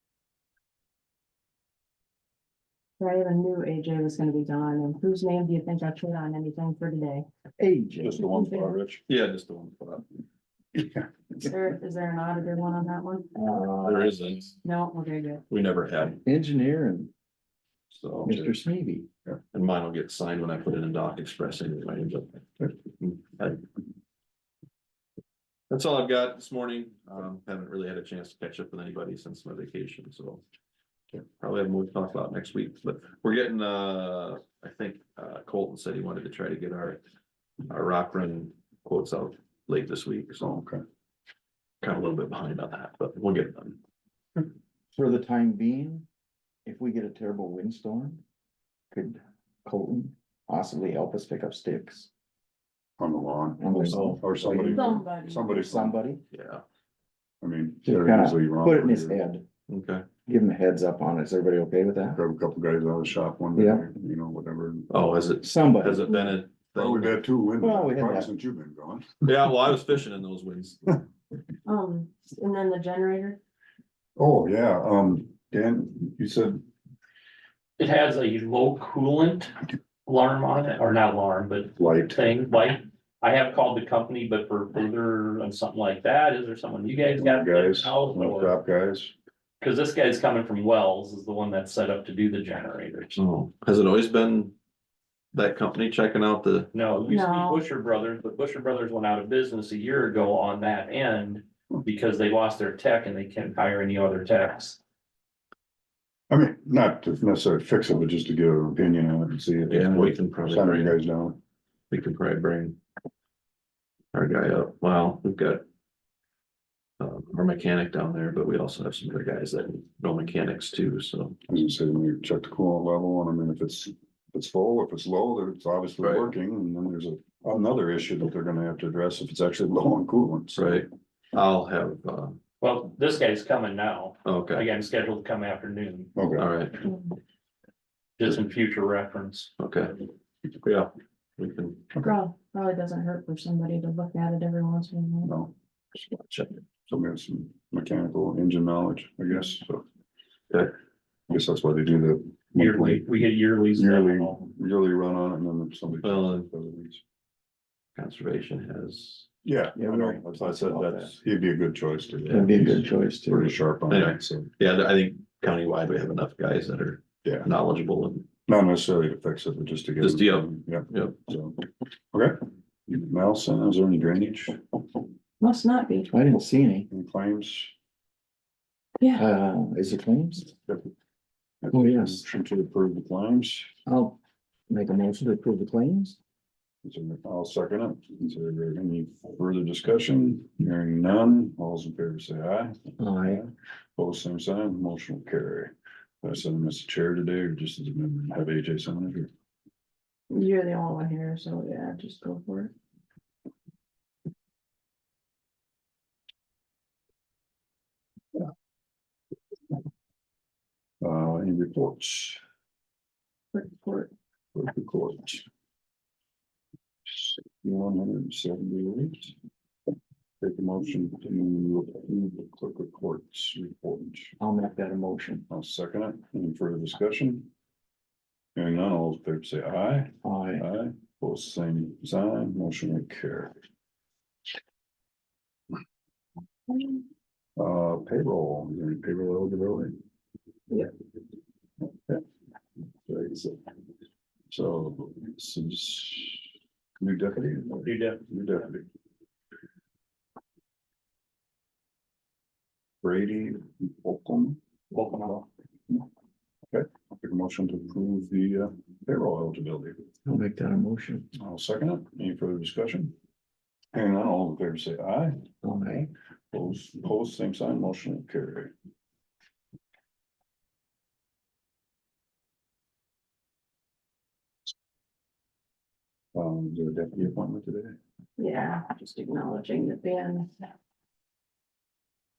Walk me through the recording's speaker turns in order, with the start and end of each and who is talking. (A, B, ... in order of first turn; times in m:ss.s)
0:03.0-0:07.3 A
0:07.6-0:08.3 B
0:08.0-0:09.0 C
0:08.3-0:08.7 A
0:09.1-0:10.0 D
0:10.7-0:11.1 C
0:11.4-0:13.3 A
0:13.3-0:14.4 B
0:13.8-0:14.6 D
0:14.6-0:15.4 A
0:15.5-0:16.2 D
0:16.2-0:17.1 B
0:17.9-0:18.6 D
0:18.2-0:19.1 B
0:19.5-0:22.4 D
0:23.0-0:23.6 D
0:25.7-0:30.4 D
0:31.4-0:37.0 D
0:37.7-0:40.4 D
0:40.4-0:40.8 C
0:41.8-0:43.8 D
0:44.9-0:46.1 B
0:46.6-0:48.2 B
0:48.9-0:52.1 B
0:53.0-0:56.0 C
0:53.6-0:56.2 B
0:53.9-0:54.2 D
0:54.6-0:55.4 A
0:56.3-0:56.6 D
0:57.4-0:59.2 C
0:57.8-0:59.4 B
0:59.7-1:00.0 D
1:00.3-1:02.2 B
1:02.1-1:04.9 C
1:03.5-1:03.9 B
1:04.9-1:07.2 D
1:05.4-1:06.1 B
1:06.7-1:09.2 C
1:07.6-1:08.3 B
1:09.2-1:11.0 D
1:11.6-1:13.4 A
1:14.2-1:16.6 C
1:17.8-1:19.5 E
1:20.0-1:28.6 E
1:21.8-1:22.2 C
1:27.2-1:29.1 C
1:29.6-1:33.2 E
1:33.2-1:34.5 D
1:35.3-1:36.7 D
1:36.7-1:44.8 E
1:37.0-1:37.6 A
1:46.3-1:51.4 C
1:49.7-1:51.0 D
1:51.9-1:52.8 D
1:54.1-1:55.6 D
1:57.0-2:01.4 D
2:01.5-2:10.8 C
2:06.0-2:06.3 D
2:10.5-2:12.4 D
2:12.6-2:16.1 E
2:14.2-2:14.7 D
2:16.2-2:16.5 C
2:16.3-2:16.9 D
2:16.8-2:17.1 A
2:18.2-2:19.5 E
2:19.6-2:20.0 D
2:20.6-2:21.8 D
2:22.0-2:25.3 A
2:25.2-2:25.5 C
2:26.0-2:26.6 D
2:26.9-2:29.8 C
2:31.3-2:33.1 C
2:32.6-2:34.4 E
2:33.7-2:37.0 C
2:36.0-2:36.5 D
2:38.0-2:39.3 D
2:39.4-2:44.5 C
2:39.7-2:41.1 B
2:42.3-2:42.6 D
2:42.3-2:43.6 B
2:43.9-2:48.3 D
2:48.5-2:51.6 C
2:50.0-2:51.2 D
2:52.1-2:54.6 C
2:55.4-2:56.1 A
2:56.1-2:56.9 B
2:56.9-2:57.7 C
2:59.0-2:59.2 A
2:59.1-3:00.5 B
3:01.6-3:03.7 C
3:01.7-3:02.2 B
3:03.8-3:04.2 B
3:04.7-3:06.2 B
3:06.8-3:19.3 C
3:13.0-3:13.4 B
3:20.3-3:22.7 A
3:31.0-3:32.4 C
3:33.5-3:34.1 A
3:34.5-3:35.4 C
3:37.1-3:39.3 C
3:40.4-3:44.3 C
3:44.4-3:45.5 B
3:45.5-3:47.5 C
3:48.5-3:53.5 C
3:50.2-3:50.6 B
3:57.6-3:59.9 C
4:03.1-4:03.6 C
4:04.5-4:06.4 C
4:07.0-4:08.8 C
4:07.8-4:08.2 E
4:13.0-4:16.0 C
4:14.9-4:15.3 E
4:16.7-4:20.0 C
4:20.2-4:21.3 B
4:21.4-4:23.1 C
4:23.9-4:25.4 C
4:25.6-4:26.1 B
4:26.5-4:28.7 C
4:36.3-4:38.0 C
4:38.4-4:40.7 A